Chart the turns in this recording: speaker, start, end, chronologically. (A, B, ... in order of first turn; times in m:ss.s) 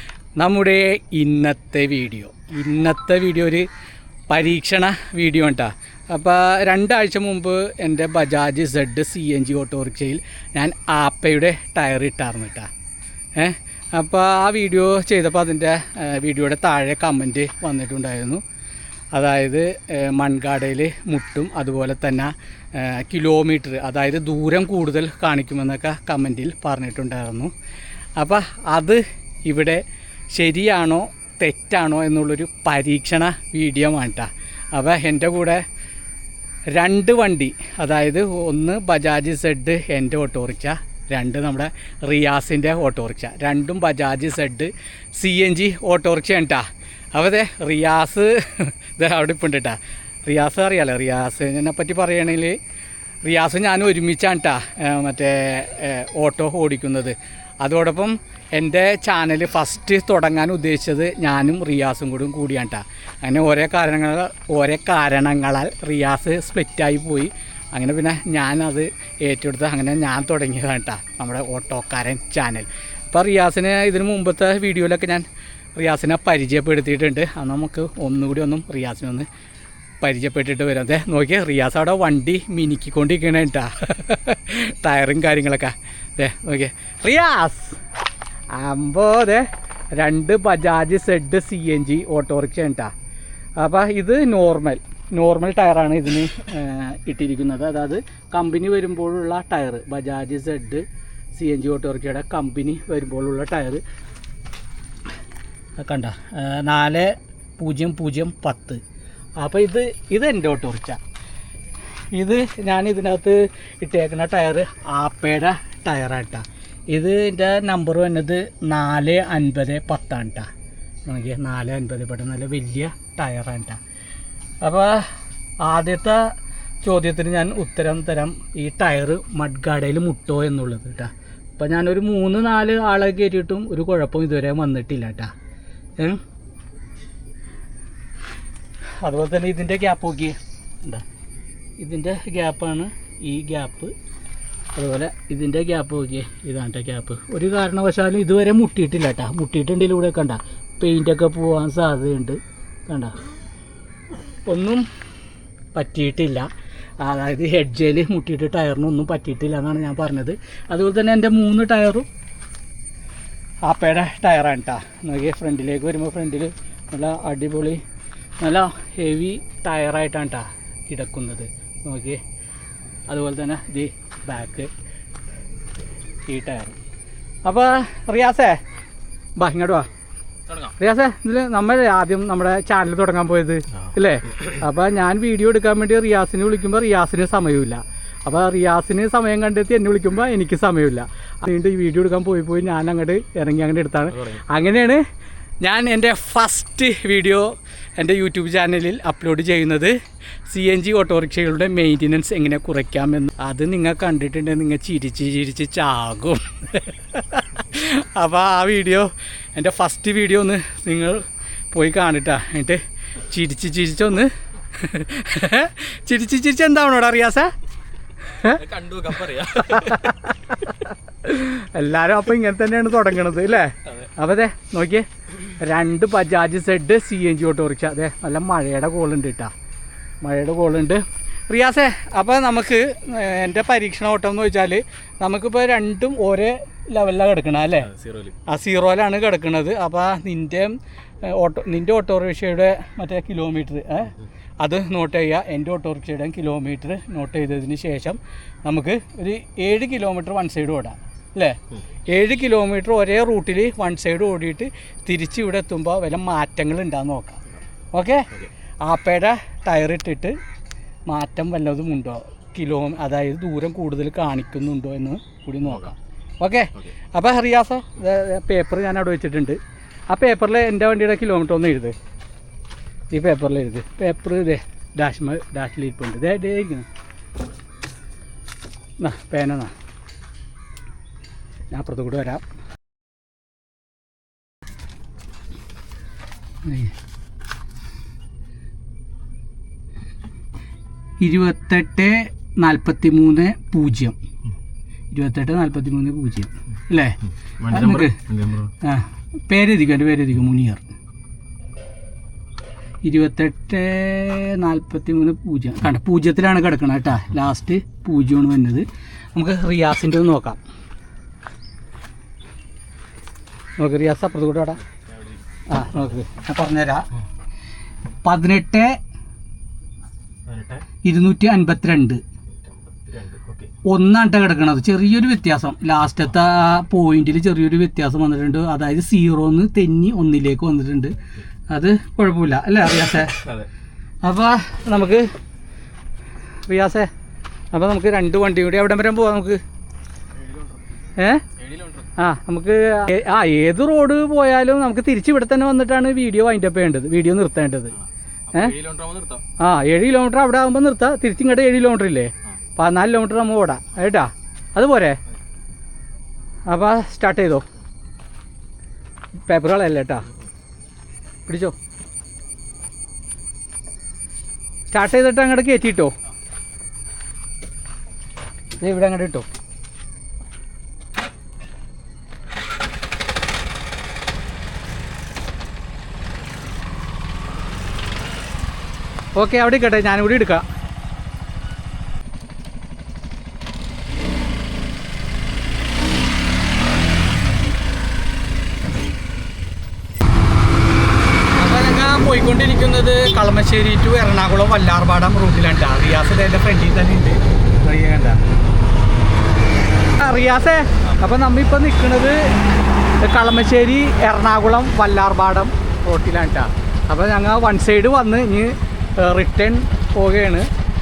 0:00.4-0:03.7 A
0:04.3-0:12.7 A
0:13.4-0:18.4 A
0:19.1-0:27.5 A
0:28.2-0:35.6 A
0:36.7-0:52.6 A
0:53.2-1:19.3 A
1:20.0-1:27.8 A
1:28.5-1:32.9 A
1:33.6-1:43.8 A
1:45.8-1:48.8 A
1:49.4-1:51.0 A
1:52.1-2:00.5 A
2:01.1-2:03.8 A
2:04.6-2:05.1 A
2:05.6-2:15.3 A
2:19.0-2:21.0 A
2:21.8-2:23.9 A
2:24.7-2:33.1 A
2:34.4-2:34.8 A
2:35.7-2:36.5 A
2:37.0-2:42.1 A
2:43.6-2:47.8 A
2:48.4-2:52.2 A
2:53.1-2:54.7 A
2:56.3-2:56.8 A
2:57.4-2:58.6 A
2:59.4-2:59.9 A
3:00.5-3:00.8 B
3:00.8-3:15.0 A
3:14.1-3:14.4 B
3:15.6-3:37.5 A
3:38.3-3:38.6 A
3:38.4-3:40.1 B
3:39.4-3:49.5 A
3:50.2-3:57.9 A
3:57.8-3:58.4 B
3:58.4-4:17.4 A
4:17.9-4:18.3 A
4:18.8-4:20.4 A
4:21.1-4:29.6 A
4:25.6-4:25.9 B
4:30.1-4:31.9 A
4:33.1-4:36.9 A
4:39.0-4:39.7 A
4:41.7-4:42.4 A
4:46.6-4:46.9 A
4:51.2-4:54.2 A
4:55.1-4:58.2 A
4:57.6-4:58.7 B
4:58.8-5:00.8 A
5:03.0-5:10.6 A
5:13.8-5:14.8 A
5:15.7-5:17.1 A
5:18.2-5:19.0 A
5:20.4-5:20.8 B
5:21.0-5:22.2 A
5:22.5-5:23.7 B
5:23.8-5:31.2 A
5:31.7-5:33.4 A
5:33.4-5:33.7 B
5:34.2-5:35.3 A
5:36.7-5:37.1 A
5:37.7-5:39.6 A
5:41.2-5:41.4 A
5:41.6-5:42.1 B
5:42.2-5:47.9 A
5:48.0-5:49.4 B
5:49.6-5:55.2 A
5:56.7-5:57.6 A
5:59.5-6:00.2 A
6:01.5-6:01.8 A
6:04.9-6:06.1 A
6:08.8-6:09.5 A
6:19.3-6:20.6 A
6:31.5-6:38.4 A
6:40.1-6:42.6 A
6:43.2-6:50.7 A